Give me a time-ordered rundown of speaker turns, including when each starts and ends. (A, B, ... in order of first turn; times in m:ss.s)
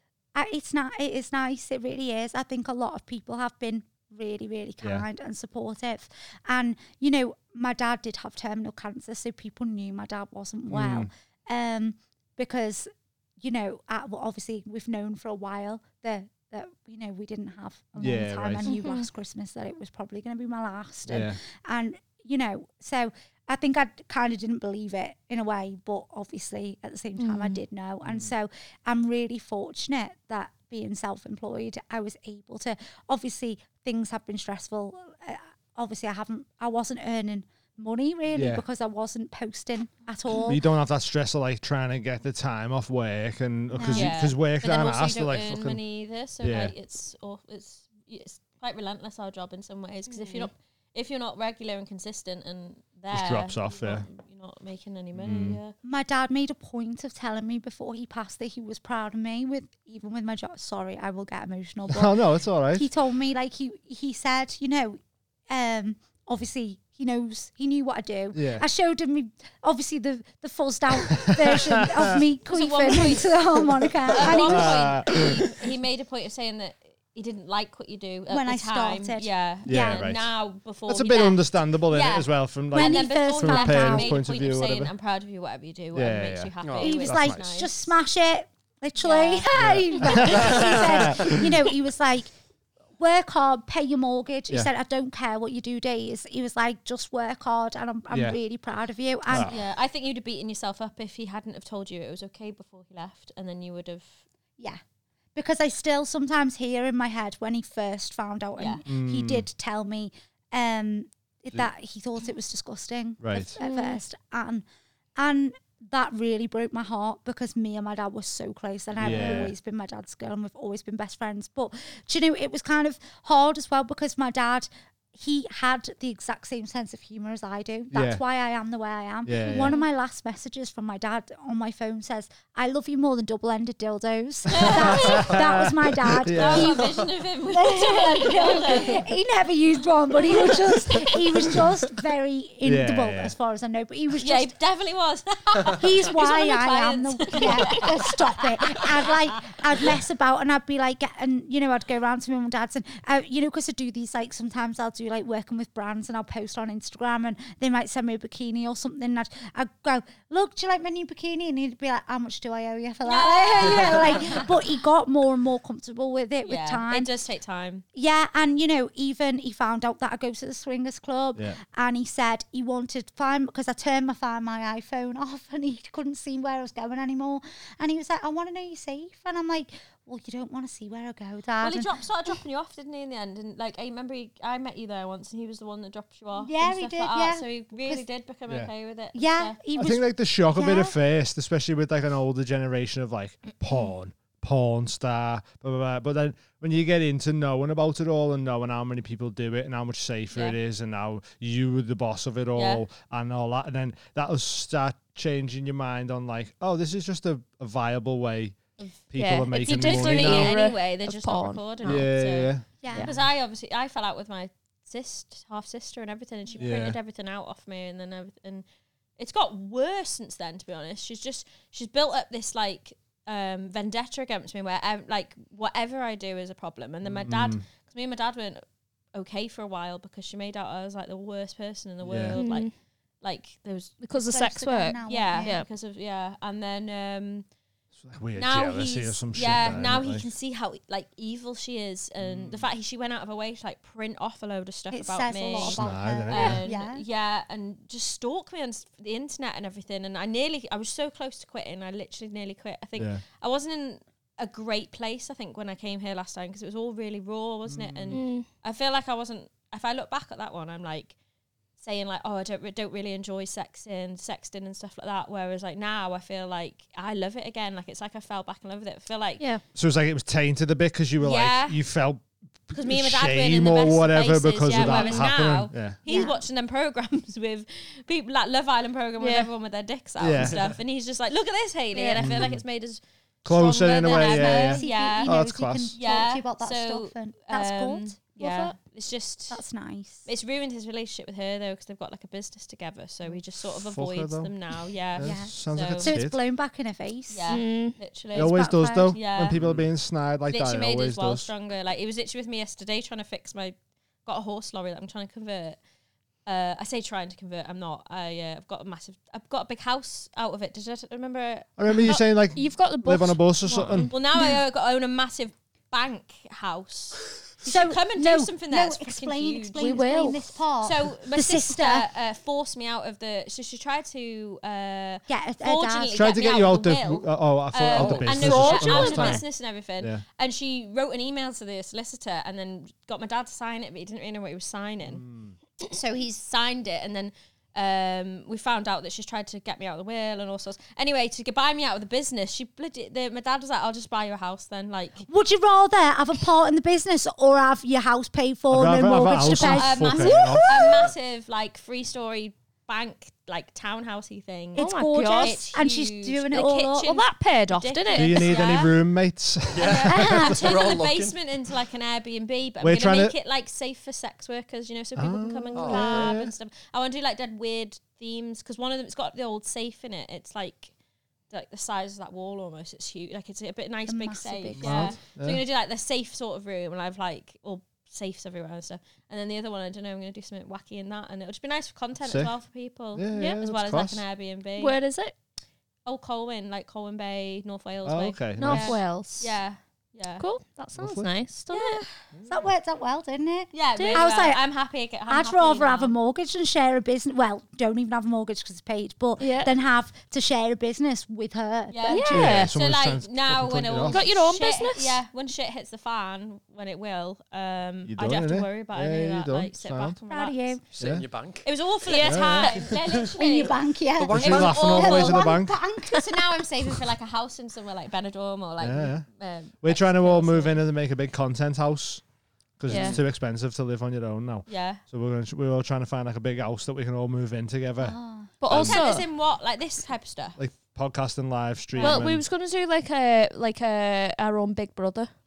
0:00.3-0:40.6 A
0:10.7-0:11.1 B
0:18.0-0:18.7 B
0:18.6-0:19.0 C
0:21.1-0:21.4 B
0:27.2-0:27.6 C
0:28.0-0:28.3 B
0:38.3-0:38.6 B
0:40.4-0:45.8 B
0:43.7-0:44.2 A
0:43.9-0:55.8 D
0:46.4-0:46.7 B
0:53.1-0:54.1 B
0:55.2-0:55.6 B
0:55.8-1:02.2 A
1:01.9-1:02.9 B
1:02.7-1:15.0 A
1:08.3-1:08.7 B
1:11.2-1:12.1 B
1:12.5-1:27.9 D
1:14.3-1:15.4 B
1:18.3-1:20.0 A
1:19.7-1:20.3 B
1:20.9-1:24.9 B
1:22.7-1:24.2 A
1:25.9-1:26.5 B
1:26.6-1:27.0 E
1:26.8-1:32.3 A
1:27.0-1:27.4 B
1:29.0-1:31.0 D
1:29.6-1:31.6 B
1:33.0-1:39.5 A
1:38.1-1:38.4 B
1:39.3-1:39.6 B
1:39.5-1:44.2 D
1:45.4-1:54.6 A
1:48.6-1:48.8 D
1:48.9-1:49.5 B
1:53.2-1:53.5 B
1:53.6-1:54.0 C
1:55.2-2:24.5 A
1:59.0-1:59.6 B
2:07.9-2:08.2 B
2:09.2-2:09.8 B
2:14.5-2:15.7 D
2:14.6-2:16.8 B
2:16.2-2:19.1 D
2:22.6-2:23.4 B
2:24.2-2:29.2 D
2:25.6-2:47.1 A
2:43.0-2:44.6 D
2:46.4-2:47.8 D
2:48.0-3:01.9 A
3:01.6-3:09.6 D
3:06.4-3:08.0 A
3:09.2-3:11.0 A
3:09.8-3:28.6 B
3:20.3-3:20.6 D
3:22.6-3:22.8 D
3:28.8-3:38.6 D
3:29.1-3:30.6 B
3:29.2-3:32.1 C
3:31.8-3:32.7 B
3:32.8-3:33.1 A
3:36.6-3:37.0 B
3:39.2-3:48.6 D
3:47.0-3:47.6 B
3:49.1-3:52.7 D
3:52.0-3:52.4 B
3:52.3-3:52.7 C
3:53.2-3:54.0 D
3:54.0-3:55.7 C
3:54.2-3:55.6 A
3:55.1-3:57.4 D
3:58.0-4:00.3 B
3:58.4-4:21.2 D
4:02.2-4:02.7 B
4:04.9-4:07.0 A
4:05.5-4:06.6 B
4:13.0-4:13.2 B
4:17.6-4:18.2 B
4:18.1-4:18.5 C
4:21.8-4:29.4 D
4:29.8-4:36.0 B
4:31.2-4:31.8 D
4:32.7-4:45.4 D
4:34.8-4:35.2 C
4:36.1-4:36.4 A
4:39.2-4:39.5 C
4:40.2-4:40.7 B
4:41.9-4:42.6 C
4:42.2-4:42.6 B
4:43.4-4:46.0 B
4:44.0-4:48.2 A
4:46.0-4:49.6 D
4:48.4-4:48.8 C
4:49.5-4:50.3 A
4:50.3-4:56.2 D
4:53.6-4:54.5 B
4:55.1-4:56.4 B
4:55.2-4:57.6 A
4:57.3-4:59.6 D
4:57.5-4:58.0 C
4:58.3-4:59.2 A
4:58.3-5:01.5 B
4:59.6-4:59.9 E
5:00.5-5:05.8 D
5:06.5-5:12.0 D
5:11.8-5:14.1 B
5:12.0-5:14.5 C
5:14.1-5:35.2 D
5:17.6-5:22.1 A
5:19.8-5:20.6 C
5:25.3-5:26.2 A
5:26.1-5:29.4 B
5:27.9-5:28.4 E
5:28.3-5:29.4 C
5:35.0-5:35.6 B
5:35.8-5:45.3 D
5:45.3-5:50.6 A
5:48.7-5:50.8 B
5:49.5-5:58.9 D
5:50.5-5:50.8 E
5:54.8-5:57.2 A
5:54.8-5:55.8 C
5:57.0-5:58.9 C
5:58.2-6:00.5 B
5:59.7-6:01.4 E
5:59.8-6:10.9 D
6:00.1-6:00.6 A
6:02.8-6:03.3 B
6:05.2-6:06.6 B
6:05.8-6:06.3 E
6:05.9-6:06.3 C
6:11.5-6:25.0 D
6:14.1-6:15.2 A
6:14.8-6:15.6 B
6:22.2-6:22.5 B
6:23.2-6:24.2 B
6:24.8-6:25.3 C
6:26.1-6:30.4 D
6:28.0-6:29.0 B
6:28.6-6:29.5 C
6:30.4-6:32.0 C
6:31.0-6:31.3 B
6:31.7-6:32.0 D
6:32.4-6:32.7 B
6:32.5-6:34.6 A
6:33.7-6:36.1 D
6:33.9-6:34.3 C
6:35.3-6:42.7 A
6:39.4-6:39.7 C
6:41.9-6:50.8 D
6:42.1-6:42.7 C
6:42.3-6:44.3 B
6:44.1-6:45.2 C
6:48.0-6:50.2 B
6:50.3-6:50.8 A
6:50.9-6:51.7 E
6:51.0-6:51.2 B
6:51.6-6:53.8 D
6:52.0-6:52.7 C
6:52.2-6:52.7 B
6:52.7-6:53.3 E
6:53.4-6:56.9 A
6:54.2-6:55.1 E
6:54.3-6:55.8 B
6:54.4-7:00.8 D
6:58.8-6:59.3 B
6:59.8-7:02.2 B
7:02.8-7:08.2 B
7:02.9-7:03.2 C
7:04.7-7:05.0 D
7:08.0-7:08.5 A
7:08.6-7:09.3 C
7:08.7-7:09.0 B
7:08.7-7:10.6 D
7:10.6-7:12.4 B
7:12.0-7:12.2 D
7:12.0-7:15.3 C